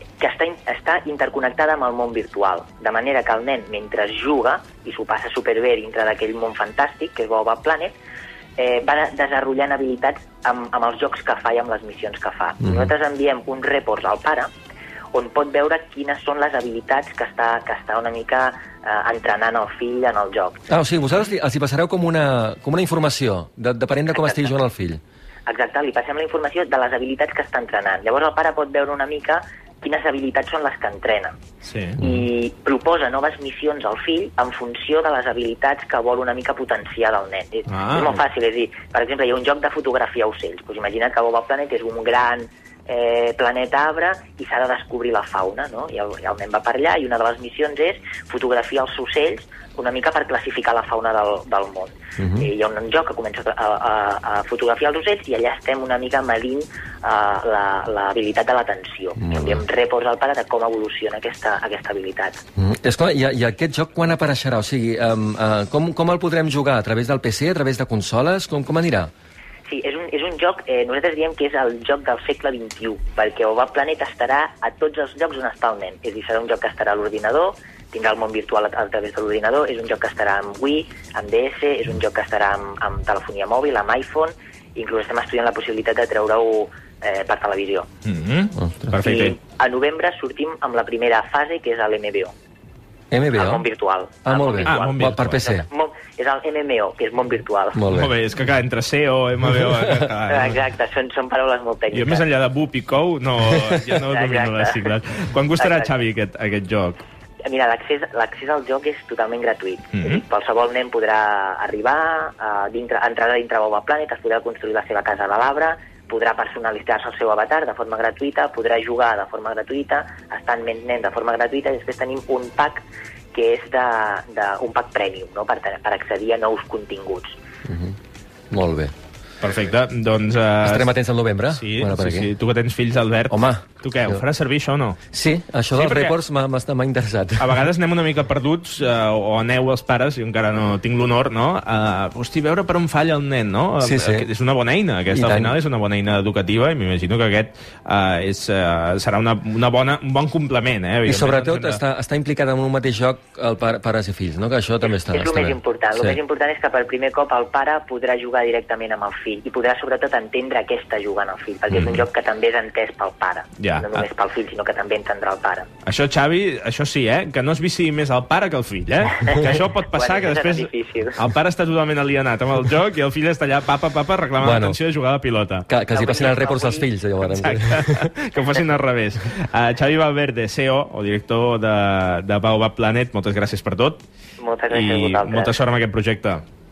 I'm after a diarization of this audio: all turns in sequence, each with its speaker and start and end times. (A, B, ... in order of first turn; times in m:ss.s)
0:00.2-0:07.9 A
0:08.6-0:14.5 A
0:12.6-0:12.9 B
0:15.1-0:20.6 A
0:20.7-0:25.0 B
0:24.2-0:24.5 A
0:25.5-0:31.4 A
0:31.6-0:32.0 C
0:32.0-1:02.4 A
0:37.7-0:38.2 C
0:52.2-0:52.5 B
0:59.2-0:59.6 B
1:02.6-1:09.1 B
1:09.7-1:27.9 A
1:28.0-1:29.4 C
1:28.6-1:28.9 B
1:29.0-1:32.3 A
1:33.1-1:33.6 B
1:33.3-1:37.8 A
1:34.2-1:35.6 B
1:34.6-1:35.4 C
1:37.7-1:38.1 B
1:37.9-1:40.6 C
1:40.3-1:42.2 A
1:41.9-1:47.0 C
1:43.9-1:44.9 A
1:45.6-1:45.9 A
1:47.4-2:07.4 A
1:49.9-1:50.2 C
2:07.6-2:08.0 B
2:08.5-2:08.9 B
2:09.4-2:10.9 C
2:10.6-2:12.3 B
2:11.5-2:15.0 C
2:13.3-2:14.2 B
2:15.1-2:17.6 B
2:15.7-2:16.1 C
2:17.4-2:31.8 C
2:23.8-2:24.3 B
2:25.1-2:25.5 B
2:31.0-2:36.2 B
2:34.9-2:45.7 A
2:41.7-2:42.0 C
2:43.6-2:44.0 C
2:45.8-2:55.7 C
2:49.2-2:51.2 A
2:54.4-2:54.8 B
2:55.7-2:58.1 B
2:55.9-2:56.9 A
2:57.3-3:04.0 C
3:04.4-3:05.6 A
3:04.7-3:06.4 C